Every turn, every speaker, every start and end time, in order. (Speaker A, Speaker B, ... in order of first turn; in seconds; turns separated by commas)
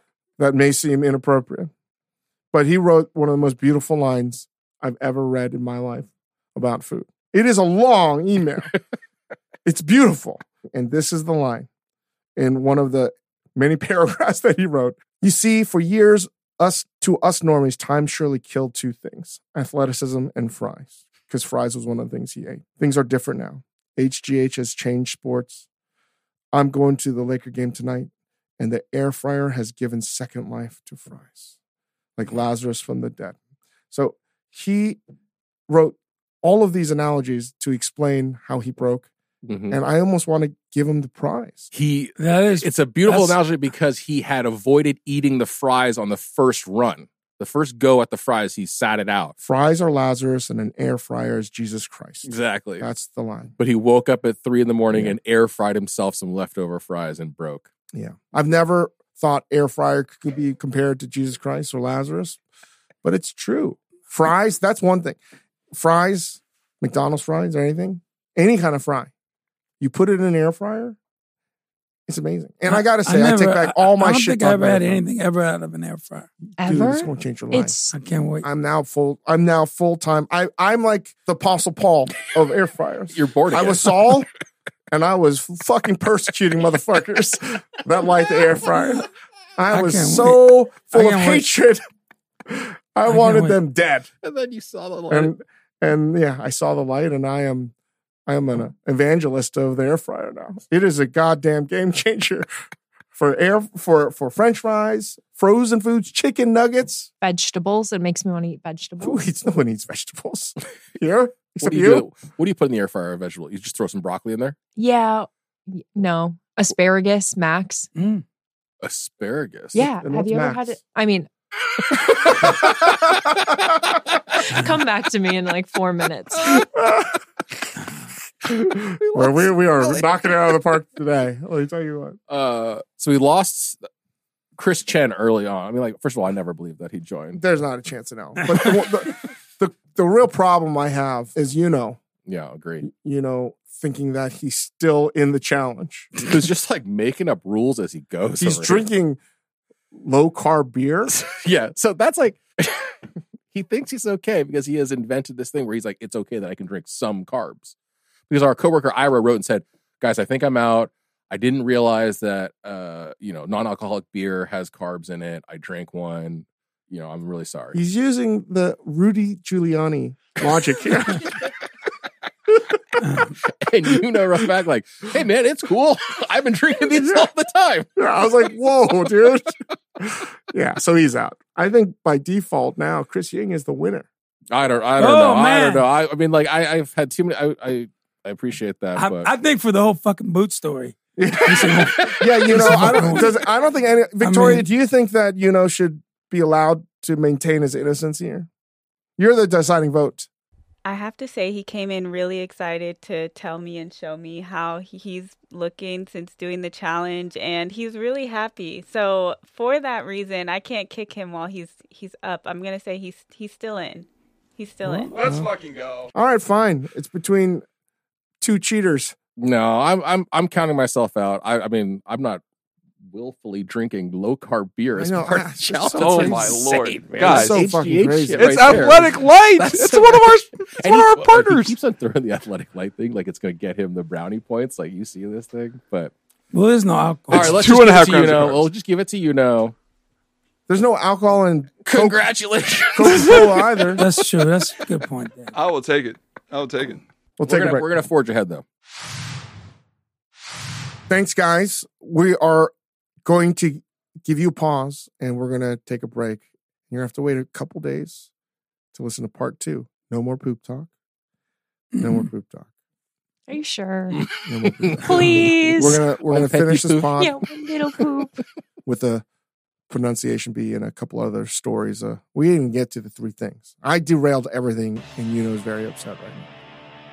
Speaker A: 0.4-1.7, Speaker A: 2.5-8.7, Speaker A: 9.6-11.7, Speaker A: 12.3-25.6, Speaker A: 26.5-31.5, Speaker A: 32.2-33.4, Speaker A: 33.9-35.0, Speaker A: 35.7-39.1, Speaker B: 39.4-39.8, Speaker A: 39.7-41.7, Speaker B: 41.7-49.3, Speaker C: 42.2-43.4, Speaker A: 49.4-53.5, Speaker B: 52.2-52.9, Speaker B: 53.6-57.7, Speaker A: 54.9-55.2, Speaker A: 57.9-62.4, Speaker A: 63.0-65.2, Speaker A: 65.7-69.1, Speaker A: 69.8-71.0, Speaker A: 72.1-75.0, Speaker C: 72.7-76.3, Speaker D: 76.6-78.0, Speaker A: 76.6-77.7, Speaker C: 77.9-78.5, Speaker A: 78.4-84.3, Speaker B: 83.1-84.1, Speaker A: 84.9-91.8, Speaker C: 88.7-89.0, Speaker C: 89.7-91.5, Speaker A: 92.5-94.1, Speaker C: 93.1-93.5, Speaker B: 94.2-95.3, Speaker A: 95.1-97.7, Speaker A: 98.3-102.5, Speaker A: 103.1-107.1, Speaker D: 107.2-109.2, Speaker A: 109.0-112.1, Speaker B: 111.6-114.5, Speaker D: 114.8-117.9, Speaker C: 118.0-118.2, Speaker B: 118.8-119.8, Speaker D: 119.7-121.3, Speaker A: 120.0-120.8, Speaker B: 122.1-122.9, Speaker A: 122.2-123.3, Speaker D: 124.4-126.6, Speaker A: 126.4-127.2, Speaker A: 128.4-132.2, Speaker B: 129.0-130.0, Speaker B: 132.3-133.8, Speaker B: 134.6-137.4, Speaker A: 137.3-142.0, Speaker B: 142.2-142.8, Speaker A: 142.8-146.2, Speaker B: 146.2-148.8, Speaker A: 148.4-149.2, Speaker A: 149.9-151.1, Speaker B: 151.1-152.9, Speaker B: 153.5-157.7, Speaker B: 158.3-167.8, Speaker A: 167.7-171.3, Speaker B: 170.4-171.3, Speaker C: 173.0-173.3, Speaker B: 173.4-177.9, Speaker A: 174.1-174.4, Speaker A: 177.0-177.3, Speaker A: 177.9-184.1, Speaker B: 184.5-189.3, Speaker C: 185.0-185.8, Speaker C: 189.0-193.3, Speaker A: 191.2-198.5, Speaker C: 194.2-194.7, Speaker A: 199.2-200.3, Speaker E: 200.8-215.2, Speaker A: 214.9-215.5, Speaker F: 215.1-216.1, Speaker A: 216.1-217.6, Speaker A: 218.4-219.1, Speaker B: 219.4-222.4, Speaker B: 223.1-236.1, Speaker A: 224.9-226.6, Speaker F: 226.0-227.7, Speaker A: 227.2-229.0, Speaker F: 228.3-231.8, Speaker C: 236.5-237.6, Speaker B: 237.3-239.7, Speaker F: 237.3-238.7, Speaker A: 240.7-242.2, Speaker B: 241.9-244.1, Speaker A: 242.9-244.0, Speaker C: 243.1-245.5, Speaker F: 245.5-247.0, Speaker A: 247.4-247.9, Speaker B: 247.4-248.6, Speaker A: 251.1-252.7, Speaker A: 253.2-258.3, Speaker A: 258.9-260.9, Speaker C: 261.9-262.3, Speaker A: 262.0-262.7, Speaker D: 263.5-264.3, Speaker B: 264.2-268.0, Speaker A: 264.4-267.4, Speaker D: 265.0-266.0, Speaker D: 267.2-268.3, Speaker A: 268.9-269.2, Speaker A: 269.9-276.4